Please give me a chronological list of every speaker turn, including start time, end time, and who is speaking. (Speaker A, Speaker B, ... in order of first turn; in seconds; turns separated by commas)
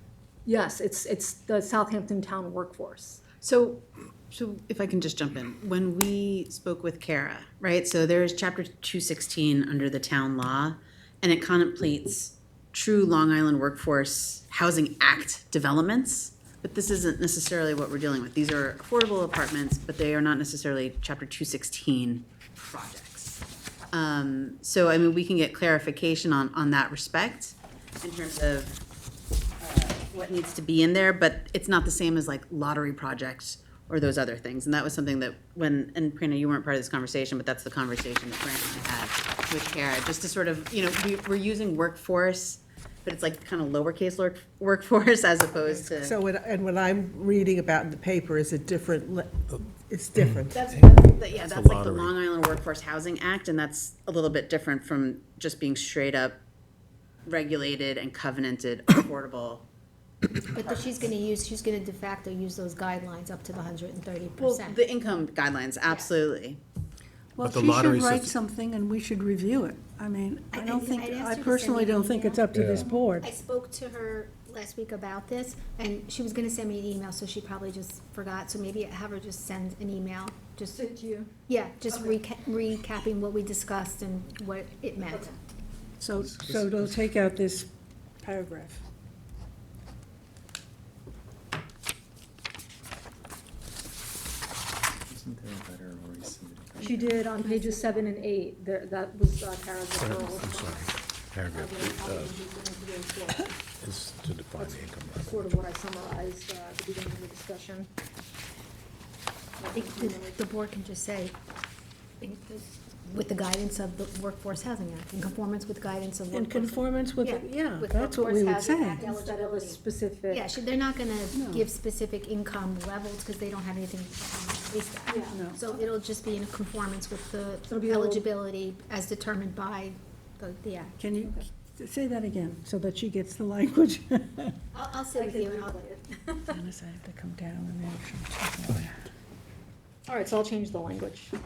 Speaker A: 0.4-3.2, Speaker B: 3.4-28.8, Speaker B: 29.6-46.2, Speaker C: 45.6-50.7, Speaker D: 50.3-50.8, Speaker E: 50.5-51.2, Speaker B: 51.1-56.4, Speaker D: 51.4-52.1, Speaker B: 57.2-59.6, Speaker E: 60.4-64.8, Speaker B: 64.4-66.6, Speaker E: 65.8-66.1, Speaker F: 67.3-73.3, Speaker D: 67.4-68.3, Speaker E: 70.5-72.5, Speaker D: 72.5-72.8, Speaker E: 73.2-80.8, Speaker A: 80.7-81.3, Speaker E: 81.5-85.4, Speaker F: 86.0-88.8, Speaker G: 86.2-86.7, Speaker G: 95.1-97.2, Speaker A: 96.8-100.9, Speaker E: 97.3-98.2, Speaker D: 100.0-102.5, Speaker A: 101.5-103.5, Speaker D: 103.8-105.5, Speaker A: 104.5-107.9, Speaker A: 109.6-110.4, Speaker E: 109.7-111.3, Speaker E: 112.2-130.9, Speaker F: 116.3-119.1, Speaker A: 119.0-120.4, Speaker F: 121.3-121.7, Speaker A: 125.1-125.4, Speaker F: 125.3-125.6, Speaker A: 127.7-128.3, Speaker F: 131.0-134.5, Speaker E: 134.7-136.6, Speaker A: 135.1-135.7, Speaker F: 136.5-139.0, Speaker A: 140.1-141.3